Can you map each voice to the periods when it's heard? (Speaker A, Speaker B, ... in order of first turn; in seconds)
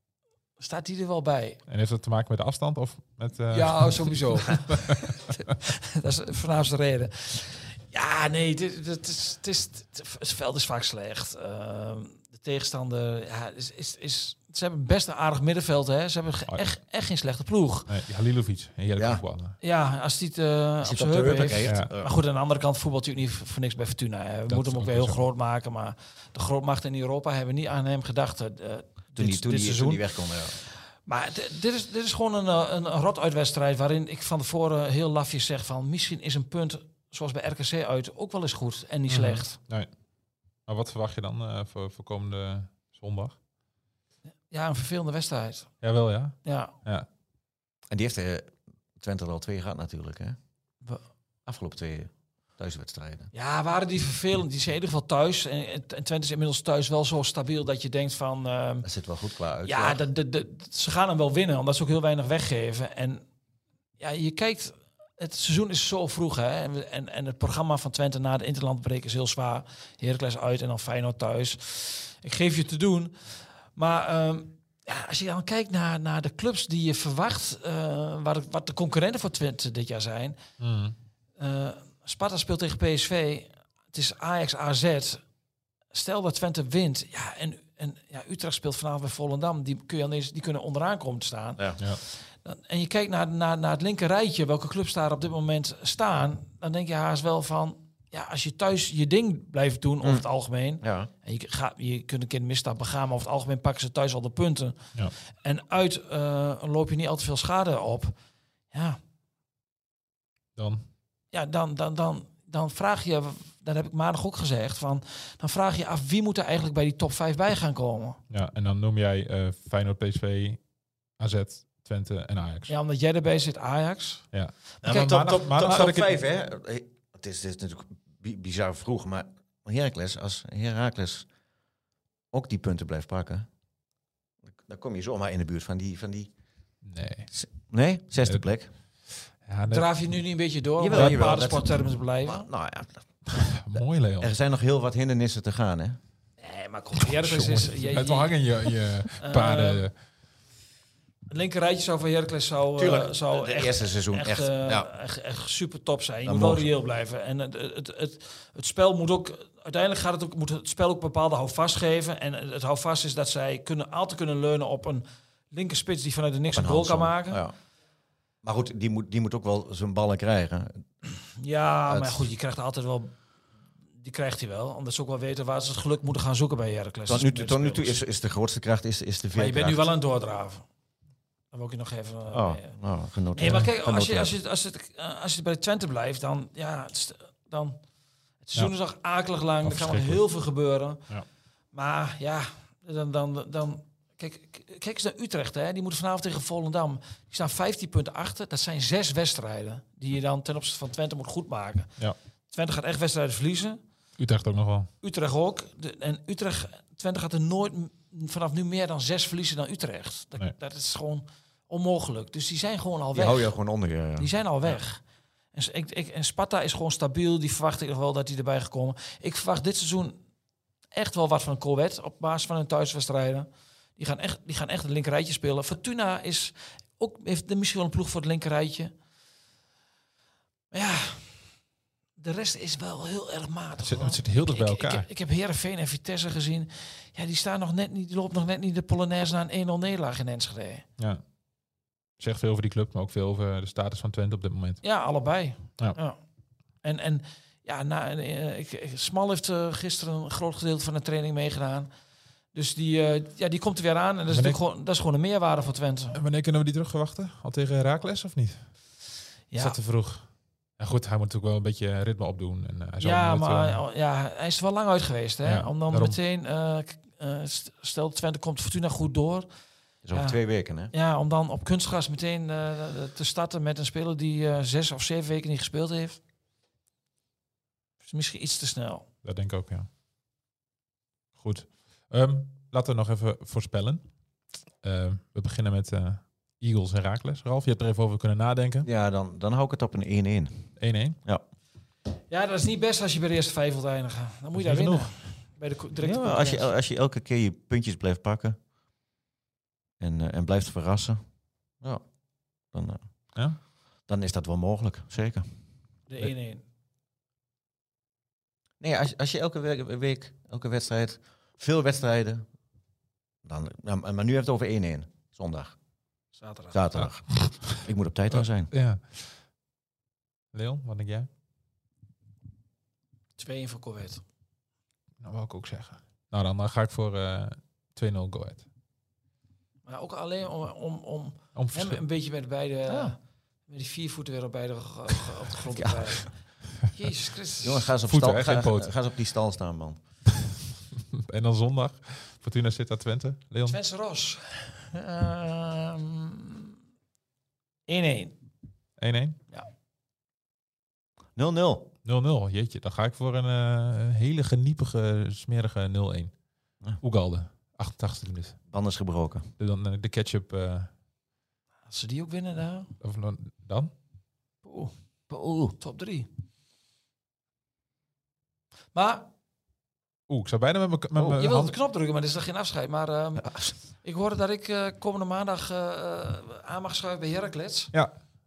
Speaker A: 0.6-1.6, 3.5-17.9, 19.6-30.1, 31.1-39.6, 44.5-45.7, 46.4-46.7, 53.3-58.9, 59.6-63.2, 64.0-73.2, 73.7-80.4, 81.4-85.2, 85.9-104.8, 105.4-108.1, 108.7-109.0, 111.3-118.2, 122.7-124.2, 139.7-142.5, 146.4-148.4, 149.2-149.9, 151.3-167.4, 171.4-173.2, 174.0-178.0, 179.3-180.6, 181.5-182.7, 183.3-187.8, 188.4-191.0, 191.7-201.9, 202.5-203.8, 205.0-213.5, 214.2-215.0, 215.5-220.2, 220.9-228.9, 230.7-231.4, 232.2-240.8, 244.8-246.2, 246.8-251.9, 252.5-256.2, 259.5-259.8, 263.0-269.5, 270.9-276.2, 278.0-279.1, 292.3-296.7, 306.1-306.6, 316.4-317.0, 323.4-324.2, 329.9-333.2, 333.7-336.3, 336.8-337.9, 343.6-346.7, 347.9-348.4, 361.9-362.9, 364.6-364.9, 365.8-366.3, 368.9-369.3, 371.2-377.9
Speaker B: 1.7-5.2, 17.9-19.6, 21.6-21.9, 24.5-25.2, 39.1-39.9, 40.7-43.3, 45.8-47.1, 80.6-81.0, 110.5-110.8, 118.3-120.6, 121.2-122.7, 124.3-126.1, 136.8-137.3, 139.4-139.9, 140.9-141.2, 143.3-144.3, 147.0-149.9, 189.6-190.2, 204.2-204.9, 233.8-235.1, 242.2-244.8, 254.3-254.6, 256.1-258.6, 259.6-260.2, 260.8-263.8, 265.4-266.2, 279.2-279.9, 281.4-284.0, 284.8-288.9, 290.8-291.2, 294.5-295.1, 317.4-317.8, 318.3-319.3, 320.5-321.3, 325.2-328.6, 331.5-332.0, 338.0-338.9, 341.1-343.8, 349.0-349.4, 352.0-356.3, 357.0-358.6, 359.6-360.9, 363.0-363.9, 370.3-371.7
Speaker C: 19.0-19.2, 20.8-22.1, 29.1-30.6, 47.9-50.4, 51.5-53.3, 58.8-60.0, 100.8-101.1, 124.8-131.3, 132.3-133.5, 134.6-136.3, 137.3-138.7, 140.8-143.0, 144.2-146.0, 152.8-154.9, 156.2-156.7, 166.5-167.5, 168.4-170.8, 171.9-172.3, 177.1-179.9, 182.3-184.3, 213.1-214.3, 270.0-270.9, 288.8-290.7, 296.0-298.6, 300.0-301.2, 302.7-303.0, 304.1-305.5, 308.8-312.4, 313.4-315.7, 316.7-318.7, 332.9-333.1, 335.8-336.1, 337.6-340.0, 351.4-351.9, 358.7-359.5, 365.3-365.7, 373.4-373.7